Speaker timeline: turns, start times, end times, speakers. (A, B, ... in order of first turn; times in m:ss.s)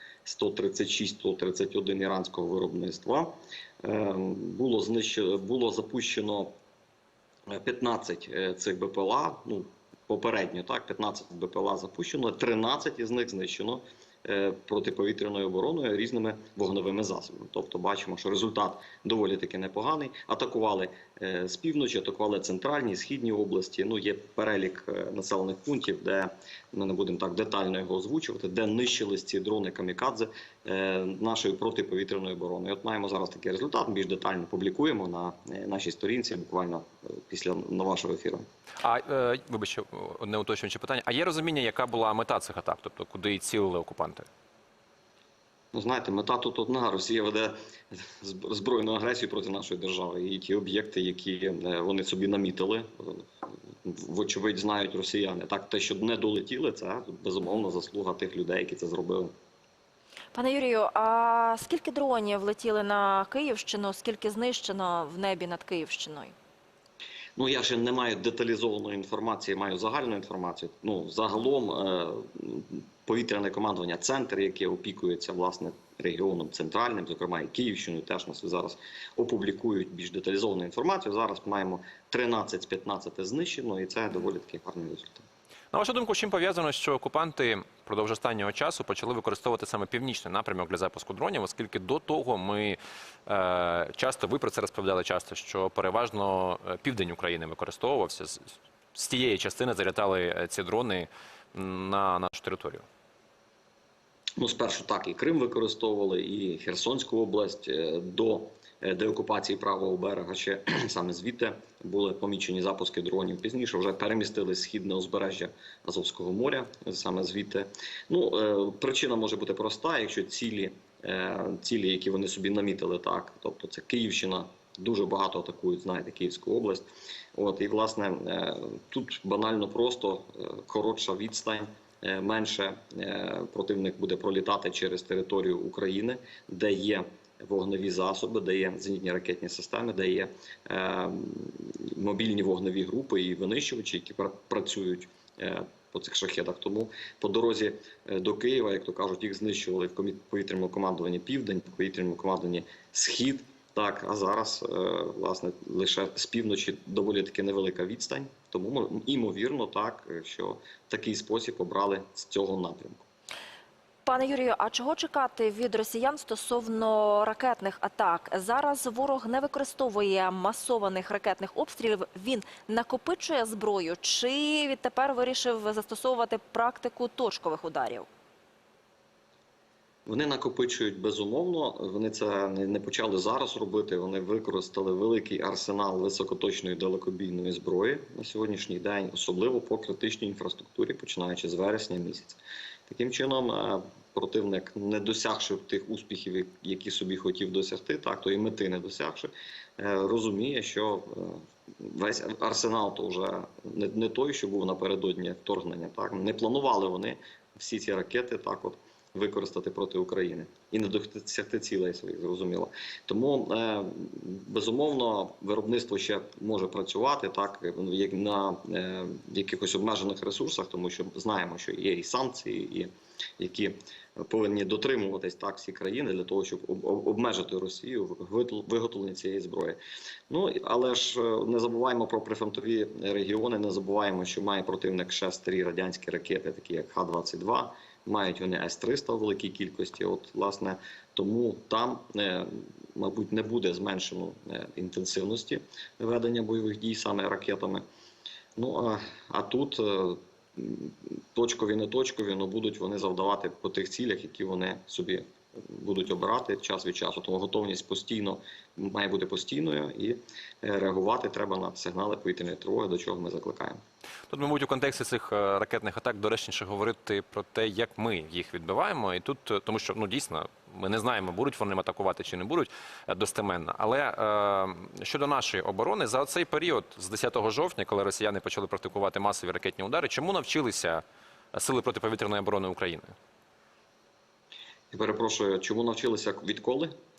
0:00.2-0:06.5 A
0:07.5-0:38.4 A
0:38.8-0:44.3 B
0:45.7-0:53.3 A
0:53.8-0:59.3 A
1:00.3-1:06.3 C
1:07.4-1:25.2 A
1:25.7-1:42.8 B
1:44.4-2:43.0 A
2:44.0-2:58.1 C
3:00.0-3:49.8 A
3:50.3-4:07.8 A
4:08.6-4:23.8 A
4:24.3-4:41.0 B
4:41.5-4:43.1 B
4:44.9-4:46.9 A